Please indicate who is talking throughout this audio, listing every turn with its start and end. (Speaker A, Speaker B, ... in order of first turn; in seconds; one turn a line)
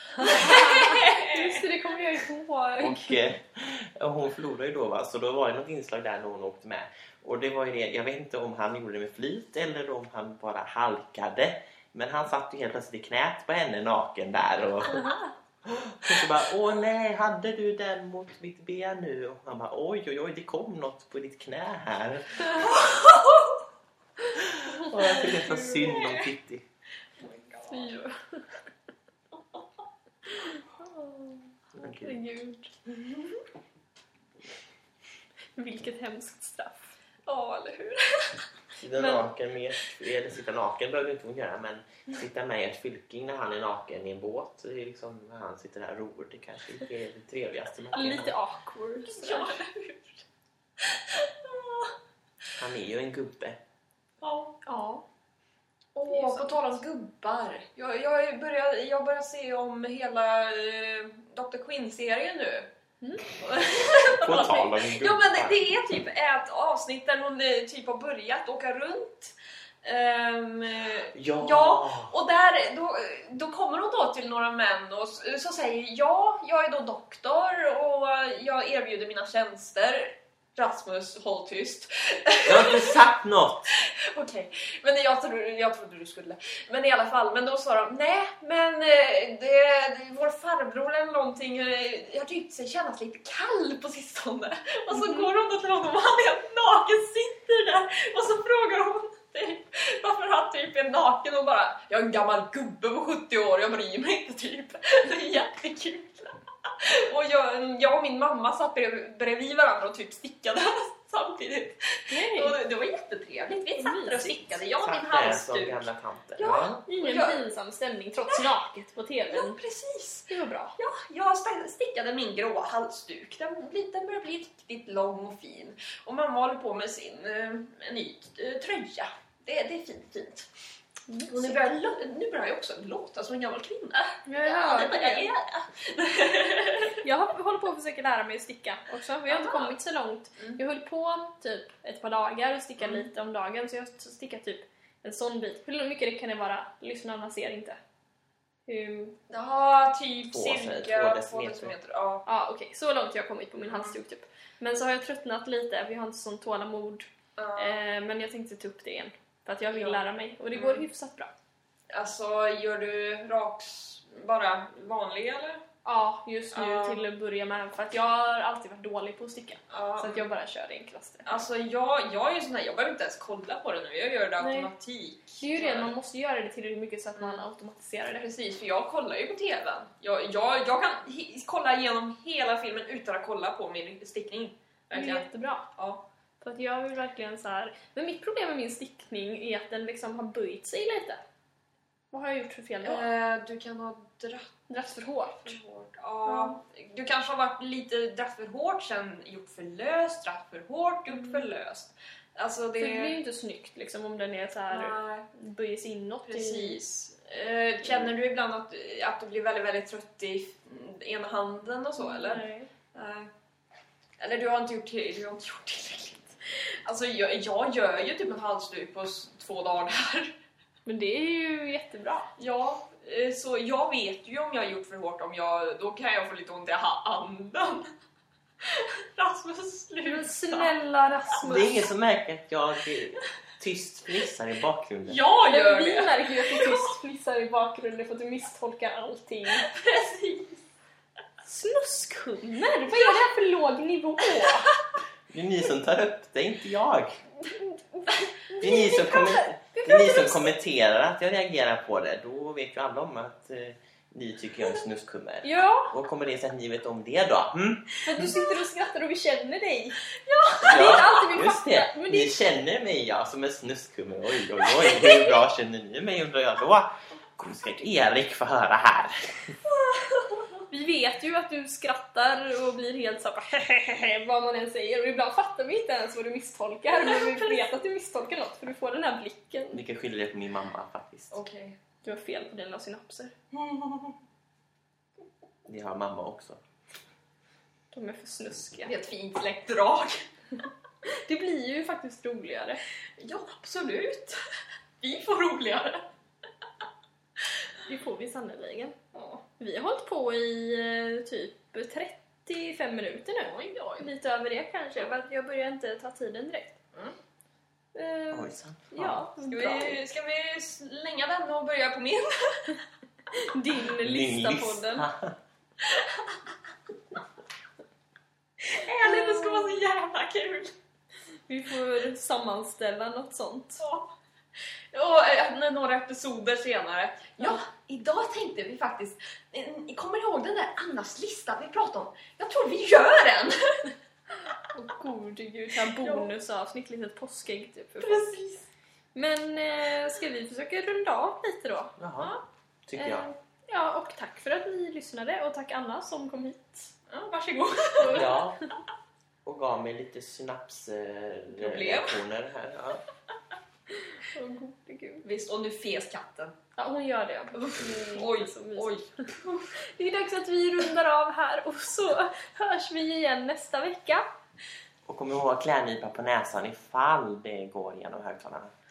Speaker A: 0.2-3.2
Speaker B: 0.2-1.6
Speaker C: 2.8-22.8
Speaker B: 22.6-23.6
Speaker C: 24.4-26.6
Speaker A: 24.9-25.3
Speaker B: 25.1-26.3
Speaker B: 27.2-27.9
Speaker A: 27.7-28.4
Speaker C: 31.7-32.2
Speaker A: 32.0-32.7
Speaker B: 32.9-33.4
Speaker A: 35.6-37.0
Speaker B: 37.3-38.4
Speaker C: 38.8-48.3
Speaker A: 39.0-39.2
Speaker A: 47.9-49.6
Speaker B: 49.1-50.2
Speaker B: 50.8-51.9
Speaker C: 52.6-53.6
Speaker B: 54.2-54.6
Speaker A: 54.6-55.0
Speaker B: 56.0-62.7
Speaker A: 56.1-56.8
Speaker B: 63.3-83.0
Speaker C: 64.2-65.6
Speaker C: 71.1-72.1
Speaker C: 82.5-83.7
Speaker B: 83.7-117.5
Speaker A: 94.9-95.3
Speaker A: 112.1-112.6
Speaker A: 113.8-114.4
Speaker C: 114.8-116.8
Speaker A: 116.9-119.6
Speaker B: 118.2-118.5
Speaker B: 119.3-130.5
Speaker A: 120.3-120.8
Speaker A: 131.1-131.6
Speaker B: 131.3-137.0
Speaker A: 134.3-135.3
Speaker A: 137.0-147.8
Speaker B: 139.3-139.8
Speaker B: 142.8-143.1
Speaker A: 148.7-149.2
Speaker B: 149.3-152.2
Speaker C: 150.3-151.7
Speaker A: 152.3-161.3
Speaker B: 153.6-154.0
Speaker B: 157.4-157.8
Speaker B: 159.7-160.8
Speaker B: 161.9-165.6
Speaker A: 165.8-171.4
Speaker B: 166.5-167.1
Speaker B: 169.7-170.3
Speaker B: 171.3-175.9
Speaker A: 174.4-174.7
Speaker A: 175.4-178.3
Speaker B: 177.2-177.4
Speaker B: 178.1-186.0
Speaker A: 184.9-185.7
Speaker A: 186.4-191.2
Speaker A: 192.1-193.1
Speaker B: 192.8-194.6
Speaker A: 194.7-195.6
Speaker B: 195.4-203.2
Speaker A: 196.3-196.6
Speaker A: 201.1-201.5
Speaker A: 202.8-206.8
Speaker B: 204.7-205.3
Speaker B: 206.3-213.3
Speaker A: 212.0-212.7
Speaker B: 214.2-220.3
Speaker A: 220.9-222.3
Speaker B: 222.4-227.9
Speaker B: 228.6-230.7
Speaker A: 230.0-231.8
Speaker C: 231.4-235.2
Speaker B: 235.1-237.0
Speaker A: 235.5-239.7
Speaker B: 239.5-240.6
Speaker A: 241.4-244.7
Speaker B: 242.9-243.2
Speaker B: 244.4-244.8
Speaker C: 245.3-247.2
Speaker B: 248.1-248.3
Speaker A: 248.5-250.5
Speaker C: 248.6-257.9
Speaker A: 255.4-255.9
Speaker A: 258.0-260.0
Speaker B: 260.3-261.1
Speaker A: 260.6-262.4
Speaker C: 260.6-269.6
Speaker A: 264.9-265.3
Speaker B: 269.9-270.5
Speaker A: 270.7-279.8
Speaker B: 277.1-277.4
Speaker C: 279.7-281.4
Speaker B: 281.3-281.8
Speaker A: 282.0-283.3
Speaker B: 283.5-284.2
Speaker C: 285.7-286.6
Speaker A: 287.9-288.9
Speaker B: 288.9-290.3
Speaker A: 291.3-292.8
Speaker B: 293.2-294.4
Speaker B: 295.0-296.1
Speaker A: 297.9-299.0
Speaker B: 299.1-299.4
Speaker A: 299.6-306.8
Speaker B: 303.4-304.1
Speaker A: 307.9-310.0
Speaker C: 308.3-309.3
Speaker B: 309.5-312.8
Speaker A: 313.3-315.1
Speaker C: 314.0-315.4
Speaker B: 315.8-316.4
Speaker B: 318.7-320.8
Speaker A: 319.0-319.8
Speaker A: 321.5-323.8
Speaker B: 323.8-324.1
Speaker B: 324.9-333.9
Speaker A: 334.7-338.3
Speaker B: 335.9-336.3
Speaker B: 338.0-338.7
Speaker A: 339.1-341.9
Speaker C: 342.0-342.4
Speaker C: 342.9-343.3
Speaker A: 343.0-346.9
Speaker B: 347.1-348.4
Speaker A: 348.0-348.4
Speaker C: 348.1-348.6
Speaker C: 349.4-353.0
Speaker B: 351.6-352.2
Speaker A: 354.3-355.2
Speaker B: 355.2-356.6
Speaker A: 356.8-358.9
Speaker B: 357.7-359.7
Speaker A: 359.9-364.3
Speaker C: 365.1-368.7